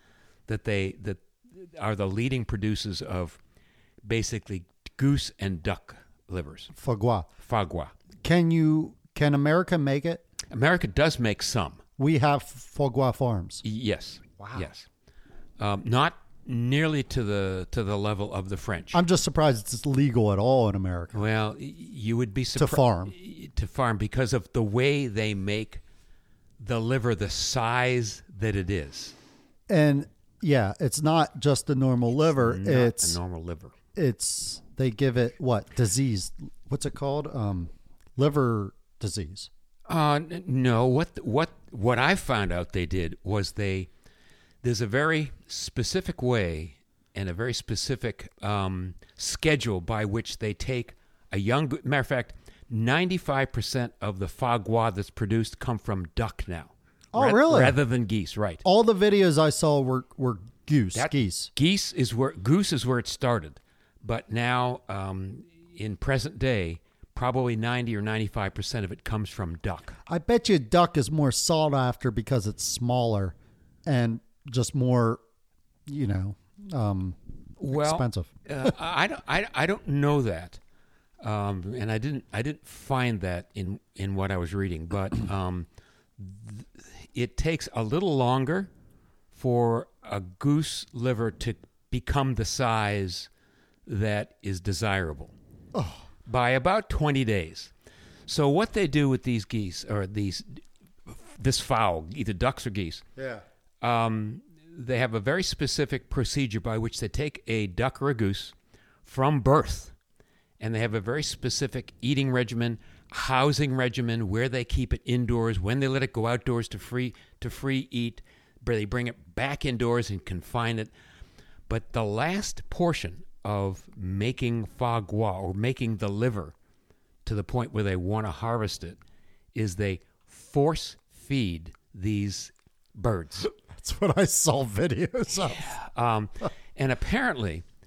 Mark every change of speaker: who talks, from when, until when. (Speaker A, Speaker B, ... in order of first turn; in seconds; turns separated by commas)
Speaker A: 0.5-3.4, Speaker A: 4.0-6.7, Speaker B: 6.7-7.3, Speaker A: 7.4-7.9, Speaker B: 8.2-10.2, Speaker A: 10.5-11.8, Speaker B: 12.0-13.6, Speaker A: 13.6-14.9, Speaker B: 14.4-14.7, Speaker A: 15.6-19.0, Speaker B: 18.9-21.2, Speaker A: 21.1-25.8, Speaker B: 22.6-23.1, Speaker A: 26.6-29.1, Speaker B: 29.7-33.2, Speaker A: 32.4-33.8, Speaker B: 34.0-39.5, Speaker A: 39.9-43.9, Speaker A: 44.6-58.6, Speaker B: 57.1-57.8, Speaker B: 58.6-61.5, Speaker A: 60.9-70.0, Speaker B: 70.1-73.3, Speaker B: 73.9-75.2, Speaker B: 75.9-77.2, Speaker A: 77.6-80.6, Speaker B: 77.7-78.7, Speaker A: 81.2-88.7, Speaker A: 89.3-93.3, Speaker A: 93.9-95.3, Speaker B: 95.7-96.0, Speaker A: 96.3-97.7, Speaker A: 98.3-103.0, Speaker B: 103.2-103.4, Speaker A: 103.8-108.5, Speaker A: 109.0-109.9, Speaker A: 110.6-120.9, Speaker A: 121.7-126.5, Speaker A: 127.3-129.0, Speaker A: 129.5-133.5, Speaker B: 133.4-135.8, Speaker A: 135.6-137.6